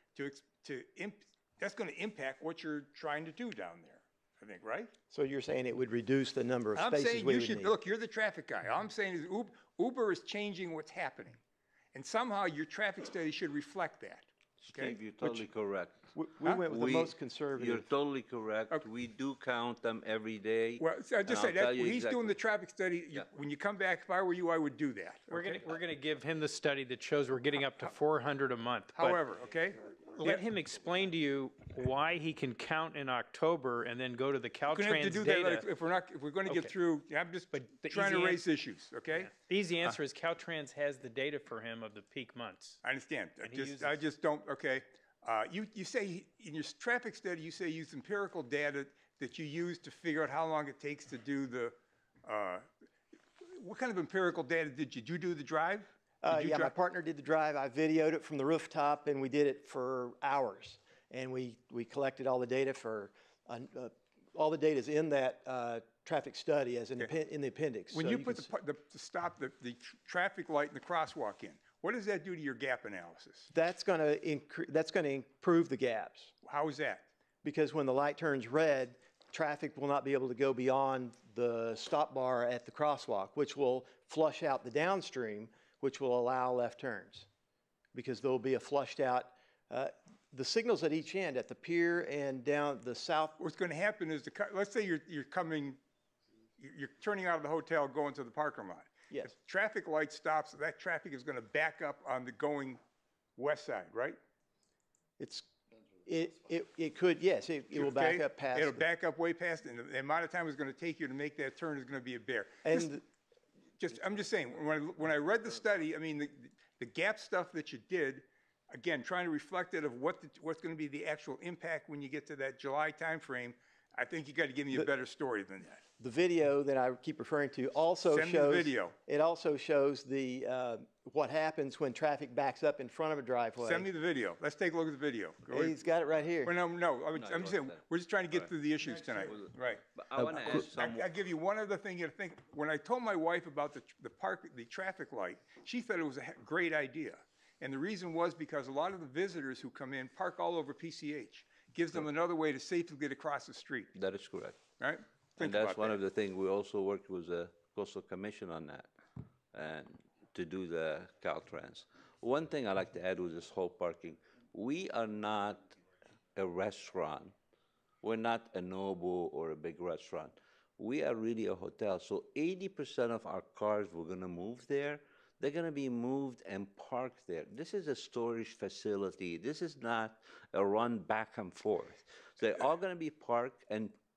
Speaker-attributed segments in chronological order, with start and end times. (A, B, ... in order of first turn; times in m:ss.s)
0:00.2-0:04.9 A
0:05.1-0:07.8 B
0:06.8-0:11.4 A
0:11.9-0:15.0 A
0:14.6-0:16.0 C
0:16.1-0:17.9 B
0:16.6-0:22.4 C
0:20.8-0:25.6 A
0:25.3-0:29.2 D
0:29.0-0:30.4 A
0:30.2-0:35.7 D
0:34.7-0:39.3 A
0:36.5-0:36.7 D
0:37.5-0:38.4 D
0:39.2-0:42.8 D
0:42.8-0:52.7 A
0:43.4-0:44.0 D
0:53.6-0:56.7 A
0:56.2-1:08.5 B
1:07.9-1:13.5 A
1:13.5-1:16.3 B
1:16.4-1:17.1 A
1:17.4-1:27.3 B
1:27.9-1:33.4 B
1:33.4-1:35.8 A
1:36.6-1:42.8 A
1:43.4-1:44.2 A
1:45.2-1:45.5 B
1:46.0-1:48.8 B
1:47.7-1:52.9 A
1:52.6-1:53.0 B
1:53.8-2:05.8 A
2:06.0-2:13.9 B
2:08.1-2:08.9 A
2:13.6-2:15.8 A
2:15.5-2:16.6 B
2:16.4-2:33.9 A
2:17.1-2:17.8 C
2:19.2-2:21.1 C
2:34.0-2:34.6 C
2:34.8-2:36.0 A
2:35.4-2:38.9 C
2:39.5-2:45.8 C
2:46.4-2:47.3 C
2:48.0-3:04.0 C